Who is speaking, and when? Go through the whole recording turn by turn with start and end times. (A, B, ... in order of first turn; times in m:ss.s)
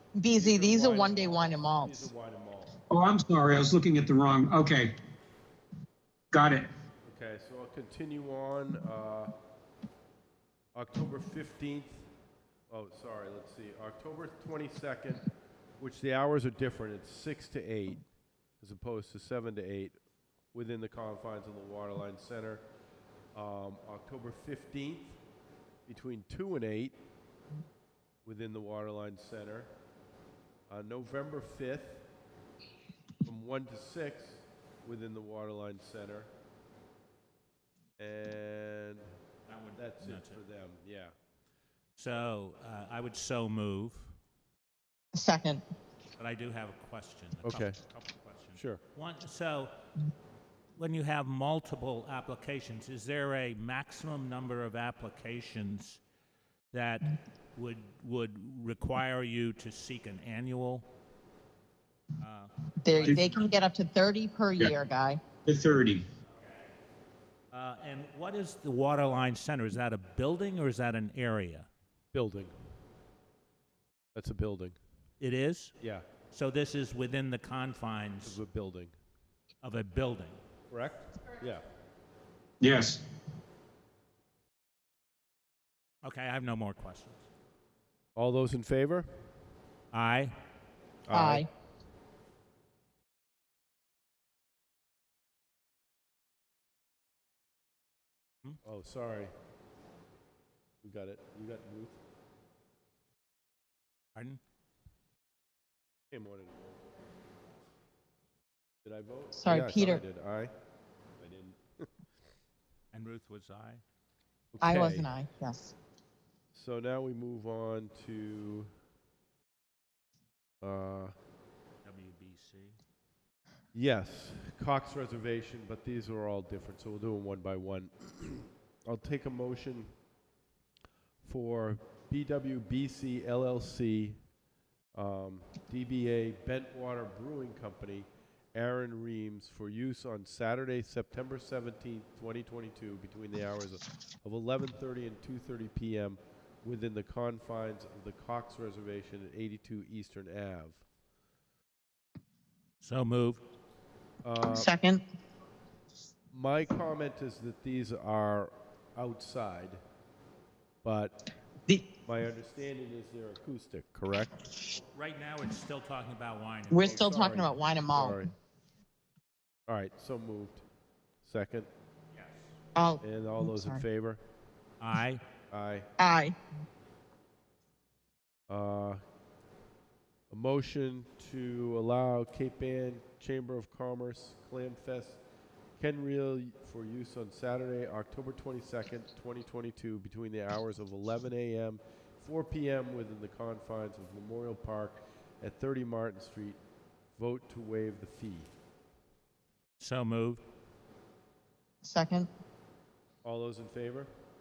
0:00.1-0:02.1 A
0:00.3-0:02.8 B
0:02.9-0:04.9 C
0:06.3-0:06.7 C
0:07.0-0:09.3 B
0:10.7-0:12.1 B
0:12.7-0:15.3 B
0:15.8-0:18.0 B
0:18.6-0:20.0 B
0:20.5-0:22.6 B
0:23.3-0:25.2 B
0:25.9-0:27.0 B
0:28.2-0:29.7 B
0:30.7-0:32.0 B
0:33.2-0:36.3 B
0:38.0-0:39.1 B
0:39.5-0:40.4 D
0:39.8-0:41.1 B
0:42.0-0:44.1 D
0:45.1-0:45.6 A
0:46.2-0:49.7 D
0:47.4-0:47.8 B
0:48.5-0:48.8 B
0:50.8-0:56.0 D
0:56.7-1:00.8 D
1:02.2-1:03.3 D
1:02.8-1:05.2 A
1:03.0-1:03.5 C
1:05.4-1:06.1 C
1:07.5-1:11.7 D
1:12.1-1:12.5 B
1:14.1-1:14.8 B
1:15.2-1:15.7 D
1:15.8-1:16.0 B
1:16.3-1:18.4 D
1:18.2-1:18.9 B
1:19.6-1:20.4 D
1:20.7-1:21.6 B
1:22.6-1:23.0 C
1:26.0-1:27.2 D
1:28.2-1:29.1 B
1:29.9-1:30.3 D
1:31.1-1:31.4 B
1:31.1-1:31.5 A
1:38.6-1:39.3 B
1:40.8-1:42.0 B
1:44.1-1:44.4 D
1:46.1-1:46.8 B
1:48.8-1:50.5 B
1:49.3-1:50.0 A
1:51.2-1:51.9 B
1:52.9-1:53.8 D
1:54.5-1:55.1 B
1:54.6-1:55.7 A
1:56.5-1:58.7 B
2:00.6-2:01.1 B
2:01.8-2:02.8 D
2:03.7-2:09.9 B
2:11.2-2:14.2 B
2:14.9-2:30.8 B
2:32.8-2:33.4 D
2:34.2-2:34.7 B
2:34.4-2:35.0 A
2:36.3-2:39.8 B
2:40.8-2:41.2 B
2:42.0-2:44.3 B
2:44.7-2:47.0 D
2:46.7-2:48.3 A
2:46.8-2:48.3 B
2:49.7-2:50.6 B
2:51.2-2:51.7 B
2:52.1-2:52.5 D
2:52.7-2:53.8 A
2:53.0-2:54.2 B
2:54.8-2:55.2 D
2:55.5-2:55.9 B
2:56.0-2:56.4 A
2:58.5-2:59.0 B
3:00.3-3:05.2 B
3:05.8-3:16.6 B
3:17.2-3:18.5 B
3:19.8-3:20.4 D
3:21.8-3:22.3 A
3:23.2-3:24.1 B